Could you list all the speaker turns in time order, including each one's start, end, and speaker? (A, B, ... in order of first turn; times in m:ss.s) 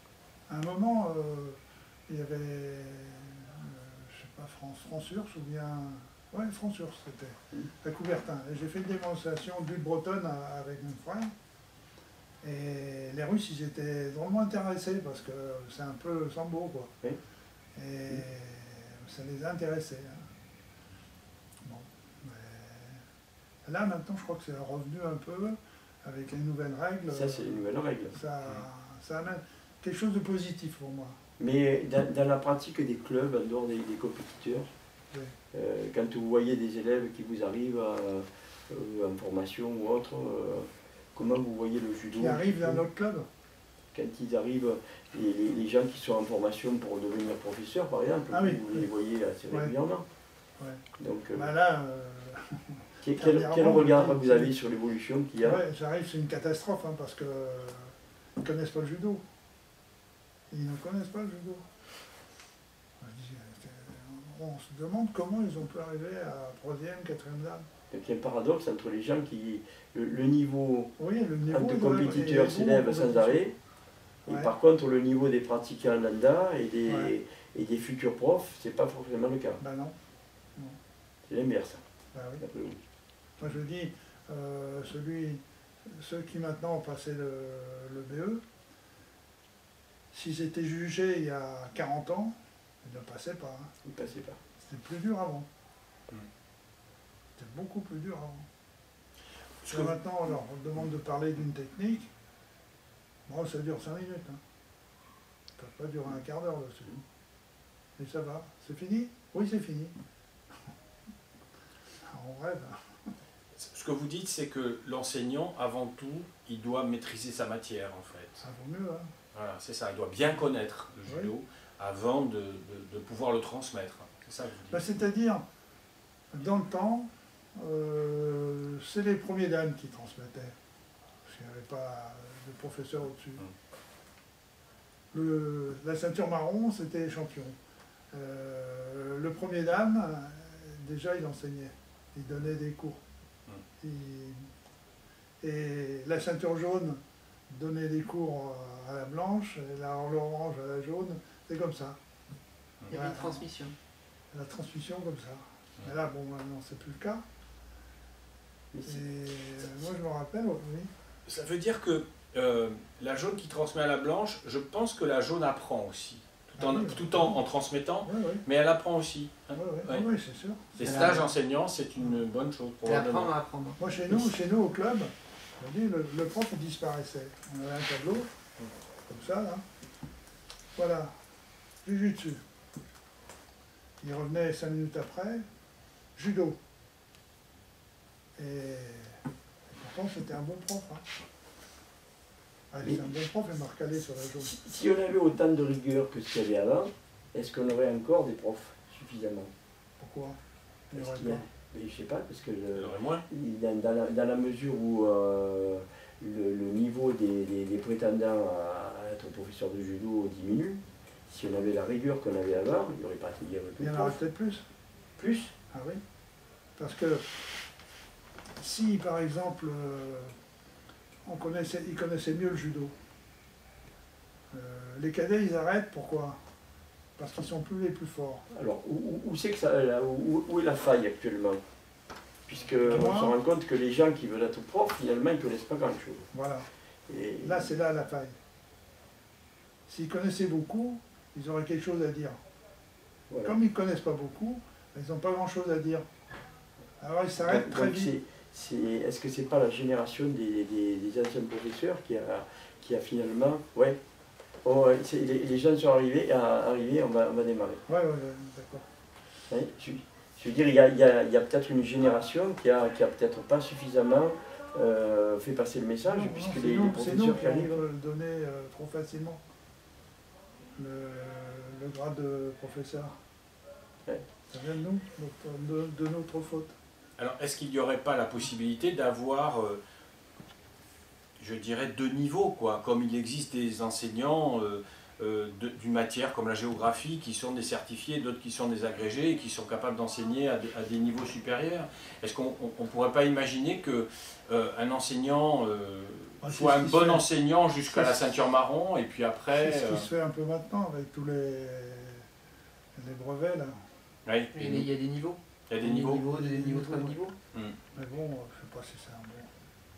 0:00.5-0:11.3 A
0:12.4-0:16.9 A
0:17.8-0:20.2 A
0:21.6-0:23.0 A
0:23.6-0:31.2 A
0:27.1-0:28.2 B
0:31.4-0:34.7 B
0:35.5-0:42.8 B
0:42.2-0:43.3 A
0:43.9-0:50.0 B
0:48.3-0:48.9 A
0:51.0-0:51.5 B
0:51.3-0:54.5 A
0:53.0-0:55.6 B
0:55.4-0:59.2 A
1:00.5-1:01.7 A
1:03.0-1:07.6 A
1:07.9-1:10.9 B
1:11.0-1:13.4 A
1:11.5-1:13.6 B
1:14.3-1:19.6 B
1:14.3-1:14.5 A
1:16.9-1:17.1 A
1:19.6-1:19.9 A
1:21.3-1:21.8 B
1:22.1-1:22.4 A
1:22.4-1:22.8 B
1:23.4-1:28.4 A
1:30.1-1:33.7 A
1:33.8-1:34.4 B
1:34.6-1:35.5 A
1:37.4-1:38.5 A
1:39.6-1:40.0 C
1:39.7-1:42.1 A
1:43.3-1:44.4 A
1:45.6-1:47.0 A
1:48.0-1:50.0 A
1:52.0-1:52.8 A
1:53.6-1:58.4 C
1:58.4-1:59.1 A
1:59.3-2:04.8 C
2:01.0-2:01.3 A
2:04.7-2:05.4 A
2:06.3-2:10.5 A
2:11.2-2:13.4 A
2:15.1-2:17.6 A
2:18.1-2:23.0 A
2:23.8-2:24.5 A
2:25.4-2:32.0 A
2:32.9-2:33.4 A
2:32.9-2:33.8 D
2:34.3-2:37.2 A
2:38.7-2:39.1 B
2:38.9-2:40.9 A
2:39.6-2:39.9 B
2:41.3-2:50.1 C
2:46.6-2:47.4 A
2:48.0-2:48.4 A
2:49.5-2:51.2 A
2:50.8-2:53.3 C
2:50.8-2:51.2 D
2:52.8-2:53.8 D
2:53.8-2:58.3 A
2:59.1-2:59.6 A
3:00.8-3:01.2 A
3:01.8-3:02.4 A
3:04.0-3:05.4 A
3:06.2-3:06.6 A
3:08.4-3:11.1 A
3:12.7-3:14.5 A
3:12.8-3:13.1 B
3:14.4-3:19.5 B
3:20.0-3:20.4 A
3:20.9-3:21.4 A
3:20.9-3:34.2 B
3:22.7-3:23.2 C
3:33.8-3:34.6 A
3:35.2-3:35.6 B
3:35.7-3:36.0 A
3:36.8-3:37.4 A
3:38.6-3:40.3 A
3:41.3-3:43.0 A
3:44.5-3:46.4 A
3:47.2-3:48.4 A
3:48.5-3:51.6 B
3:52.5-3:56.3 B
3:52.7-3:53.4 A
3:56.3-3:56.7 A
3:57.1-3:57.7 B
3:57.4-3:58.4 A
3:59.9-4:02.4 A
4:03.3-4:03.6 B
4:03.4-4:06.0 A
4:07.0-4:08.2 A
4:07.4-4:14.0 B
4:14.6-4:17.8 B
4:17.9-4:18.9 A
4:19.5-4:27.8 B
4:26.1-4:29.4 A
4:30.8-4:33.2 A
4:34.5-4:36.7 A
4:37.2-4:39.8 C
4:41.4-5:00.1 C
4:56.4-4:57.2 A
4:57.9-4:58.3 A
4:59.5-5:02.3 A
5:03.0-5:03.8 A
5:04.3-5:04.9 C
5:04.5-5:07.4 D
5:05.7-5:06.2 C
5:06.1-5:07.2 A
5:08.0-5:09.5 A